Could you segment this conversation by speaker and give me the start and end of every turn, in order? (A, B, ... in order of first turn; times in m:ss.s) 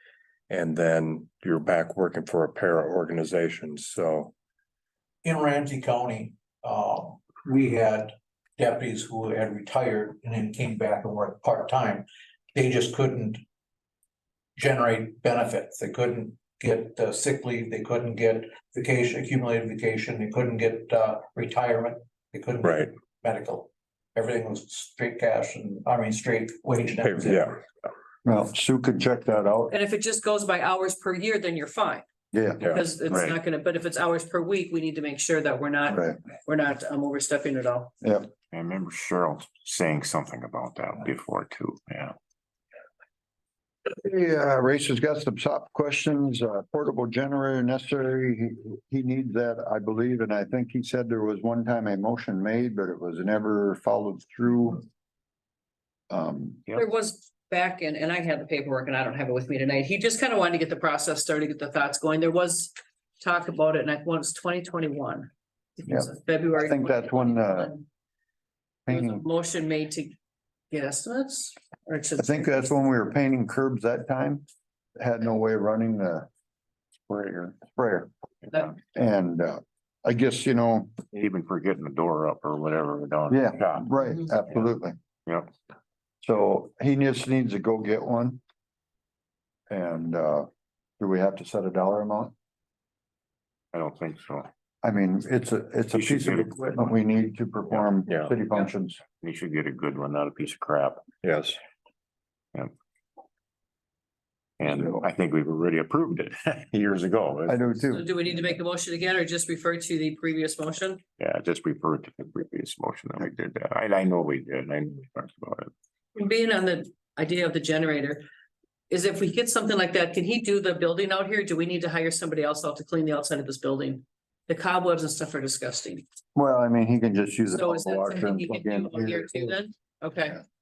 0:00.5-0:04.3 A
0:05.2-0:13.4 B
0:14.6-0:27.5 B
0:22.6-0:22.9 A
0:27.0-0:27.6 A
0:28.2-0:29.7 C
0:29.7-0:32.0 D
0:32.3-0:32.6 C
0:32.6-0:37.9 D
0:33.1-0:33.4 E
0:35.9-0:36.2 C
0:38.0-0:38.3 C
0:38.5-0:42.1 E
0:43.9-0:54.8 C
0:56.1-0:56.6 C
0:56.7-1:07.8 D
1:05.8-1:07.7 C
1:08.9-1:09.2 C
1:08.9-1:10.1 D
1:10.7-1:12.6 D
1:12.2-1:14.4 C
1:15.0-1:16.3 C
1:17.1-1:21.0 C
1:21.1-1:23.8 E
1:23.3-1:24.9 C
1:25.2-1:25.5 E
1:26.2-1:28.4 C
1:29.7-1:30.5 C
1:31.0-1:32.3 C
1:33.7-1:34.5 E
1:34.8-1:39.0 C
1:35.9-1:36.9 E
1:39.2-1:41.0 E
1:41.2-1:41.6 A
1:44.6-1:47.7 E
1:44.6-1:45.0 C
1:47.5-1:48.6 C
1:47.9-1:51.0 D
1:51.2-1:55.7 E
1:56.1-1:58.2 D
1:58.9-2:06.0 D
2:06.3-2:09.6 C
2:07.5-2:10.4 D